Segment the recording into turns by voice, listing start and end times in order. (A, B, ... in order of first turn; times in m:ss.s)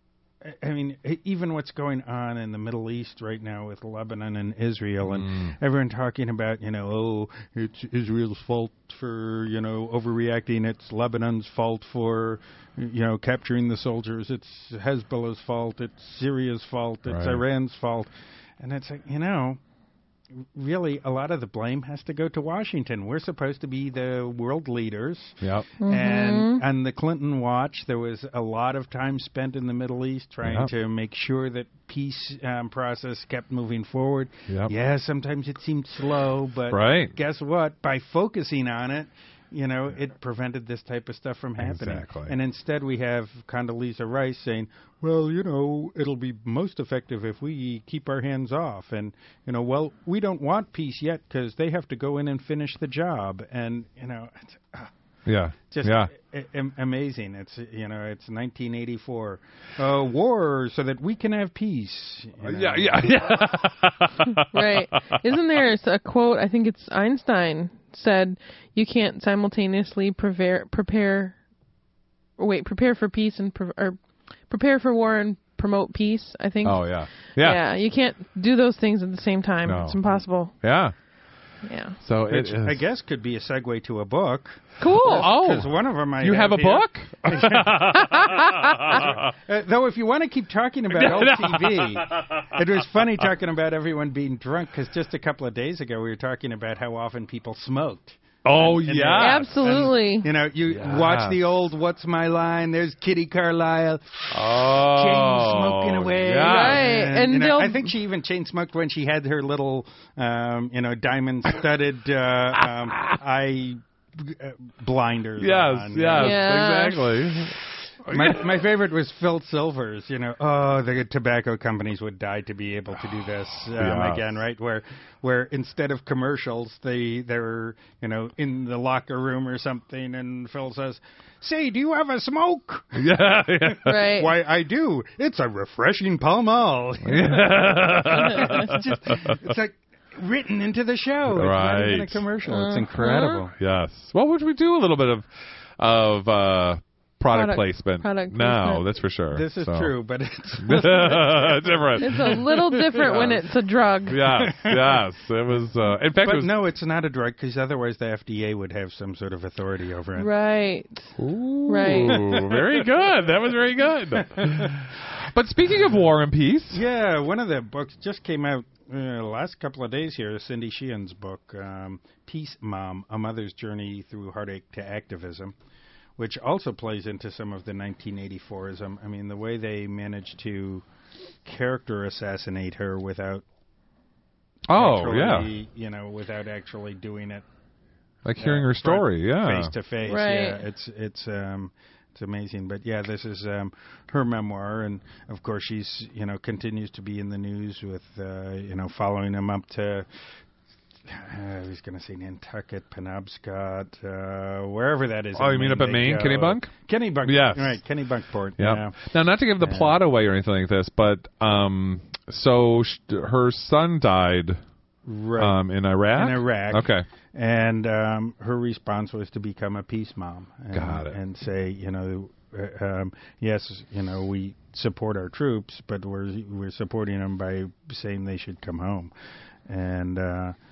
0:00.4-0:19.6 A
0:05.0-0:05.6 B
0:17.1-0:17.4 B
0:20.5-0:54.9 A
0:25.4-0:25.7 B
0:25.8-0:26.6 C
0:30.4-0:30.7 B
0:34.5-0:34.7 B
0:36.7-0:37.2 B
0:41.6-0:42.4 B
0:55.3-0:56.1 B
0:55.7-1:03.4 A
1:02.4-1:04.8 B
1:04.5-1:11.4 C
1:12.4-1:20.6 C
1:16.6-1:17.6 B
1:19.6-1:21.0 B
1:21.6-1:22.0 C
1:22.0-1:22.8 B
1:22.3-1:28.0 A
1:24.8-1:25.3 C
1:24.9-1:29.3 B
1:28.0-1:29.0 C
1:28.9-1:56.6 A
1:30.9-1:32.4 B
1:38.4-1:39.9 B
1:39.2-1:40.3 C
1:40.7-1:41.4 B
1:44.3-1:46.9 B
1:46.4-1:47.9 C
1:52.6-1:53.2 B
1:55.4-1:58.6 B
1:56.2-1:57.0 C
1:58.1-2:23.5 A
2:03.7-2:04.3 B
2:13.0-2:14.1 B
2:13.8-2:14.3 C
2:17.0-2:19.5 B
2:21.3-2:22.2 B
2:22.5-2:23.4 C
2:23.0-2:29.9 B
2:27.3-2:28.8 C
2:29.3-2:32.4 A
2:30.6-2:33.4 B
2:32.0-2:34.2 C
2:33.0-2:33.4 A
2:34.1-2:36.5 B
2:34.2-2:35.0 A
2:36.2-2:40.3 A
2:40.2-2:41.2 C
2:41.2-2:46.8 B
2:41.7-2:42.2 C
2:41.8-2:42.8 A
2:44.2-2:44.7 A
2:46.7-2:55.5 A
2:56.2-3:00.8 A
3:01.4-3:03.4 A
3:04.7-3:05.5 B
3:04.7-3:07.4 A
3:08.2-3:09.7 B
3:08.4-3:20.1 A
3:10.1-3:10.6 C
3:21.1-3:29.0 A
3:25.4-3:26.7 B
3:27.2-3:27.8 B
3:28.6-3:34.6 B
3:29.6-3:30.0 A
3:35.1-3:49.1 A
3:35.4-3:37.1 B
3:40.7-3:41.2 B
3:49.7-3:50.6 A